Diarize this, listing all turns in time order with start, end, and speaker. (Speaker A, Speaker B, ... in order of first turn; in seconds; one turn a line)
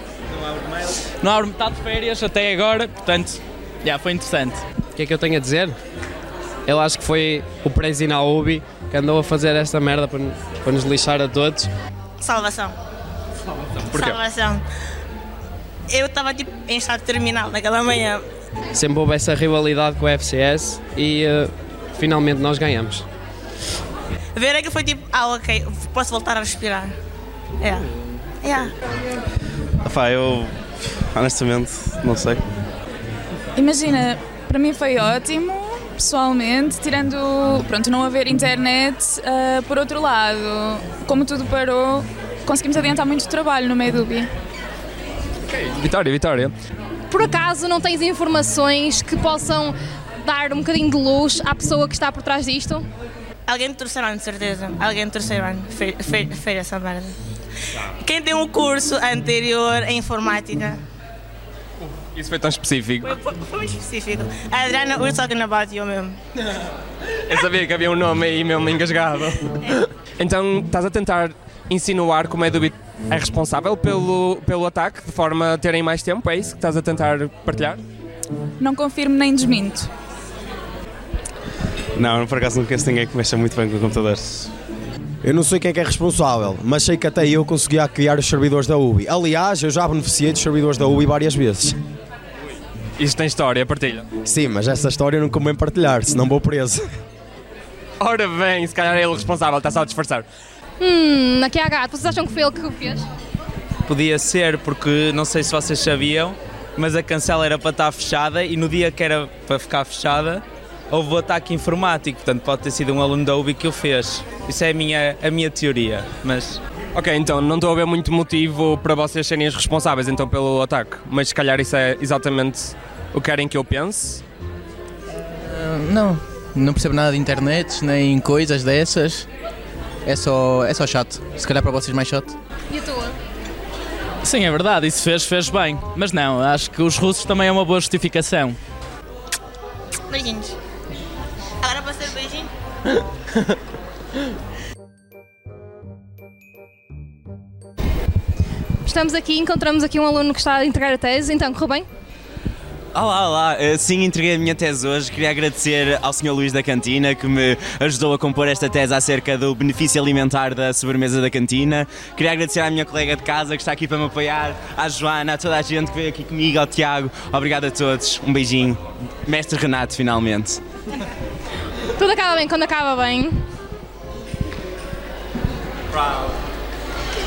Speaker A: 1.2-4.6
Speaker B: 5.0-5.8
Speaker B: 6.7-11.7
Speaker C: 12.2-12.7
Speaker C: 13.9-14.6
Speaker C: 15.9-18.2
Speaker B: 18.7-23.1
Speaker C: 24.4-26.9
Speaker C: 27.6-27.9
Speaker C: 28.4-28.7
Speaker D: 29.8-30.5
Speaker D: 31.1-32.4
Speaker E: 33.5-44.3
Speaker F: 45.5-46.5
Speaker G: 47.1-52.9
Speaker C: 53.5-57.1
Speaker C: 58.0-60.8
Speaker F: 62.1-63.2
Speaker C: 63.0-66.2
Speaker F: 67.3-69.4
Speaker F: 70.2-77.8
Speaker E: 78.6-79.9
Speaker D: 82.0-84.5
Speaker H: 85.2-91.8
Speaker F: 93.0-94.1
Speaker H: 94.2-96.9
Speaker F: 98.0-100.3
Speaker G: 100.8-103.1
Speaker I: 103.8-116.6
Speaker F: 116.9-124.2
Speaker J: 125.4-129.3
Speaker J: 130.1-132.4
Speaker G: 132.7-133.1
Speaker A: 134.2-138.6
Speaker C: 140.1-140.6
Speaker C: 141.6-142.5
Speaker G: 148.8-151.9
Speaker K: 152.9-170.6
Speaker G: 171.9-173.5